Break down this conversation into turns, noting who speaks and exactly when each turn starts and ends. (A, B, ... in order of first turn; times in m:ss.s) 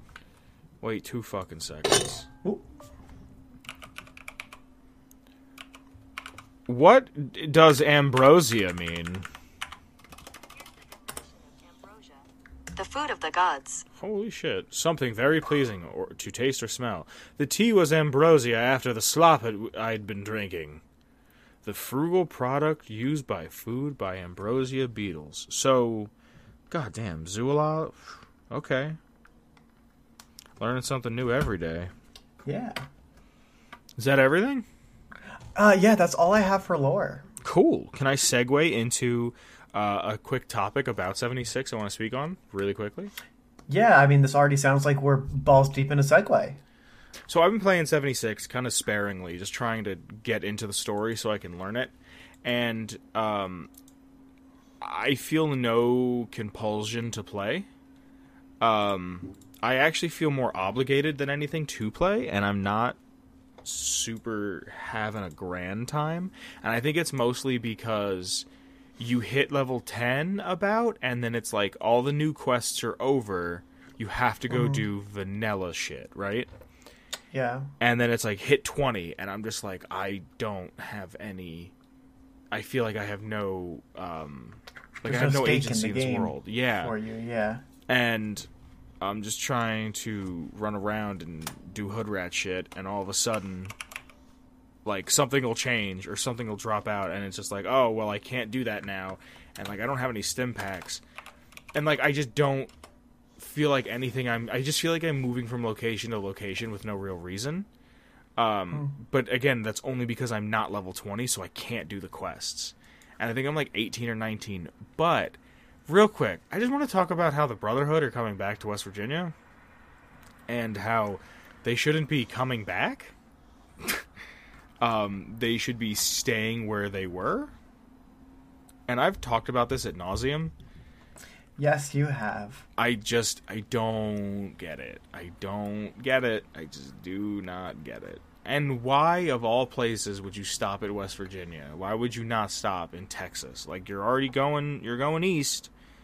0:00.8-0:02.3 A
0:06.7-0:09.2 A
0:11.0-0:12.2 B
0:12.7-0:13.8 B
0:14.0-0:20.8 A
0:21.6-0:26.1 A
0:26.7-0:29.0 A
0:30.6-0:31.9 A
0:32.4-0:32.8 C
0:34.0-0:34.6 A
0:35.6-0:37.2 C
0:37.4-0:43.1 A
0:43.7-0:46.6 C
0:47.3-0:53.7 A
0:54.8-0:57.7 A
0:58.6-1:03.0 A
1:03.6-1:08.4 A
1:09.0-1:16.5 A
1:14.5-1:14.8 C
1:17.3-1:17.7 C
1:17.8-1:21.7 A
1:22.5-1:27.0 A
1:25.0-1:27.6 C
1:27.9-1:28.5 A
1:29.0-1:33.7 A
1:34.8-1:41.0 A
1:41.7-1:42.7 A
1:43.4-1:47.7 A
1:48.4-1:59.3 A
2:00.5-2:03.1 A
2:04.8-2:07.5 A
2:08.9-2:10.5 A
2:11.6-2:12.6 C
2:12.8-2:25.7 A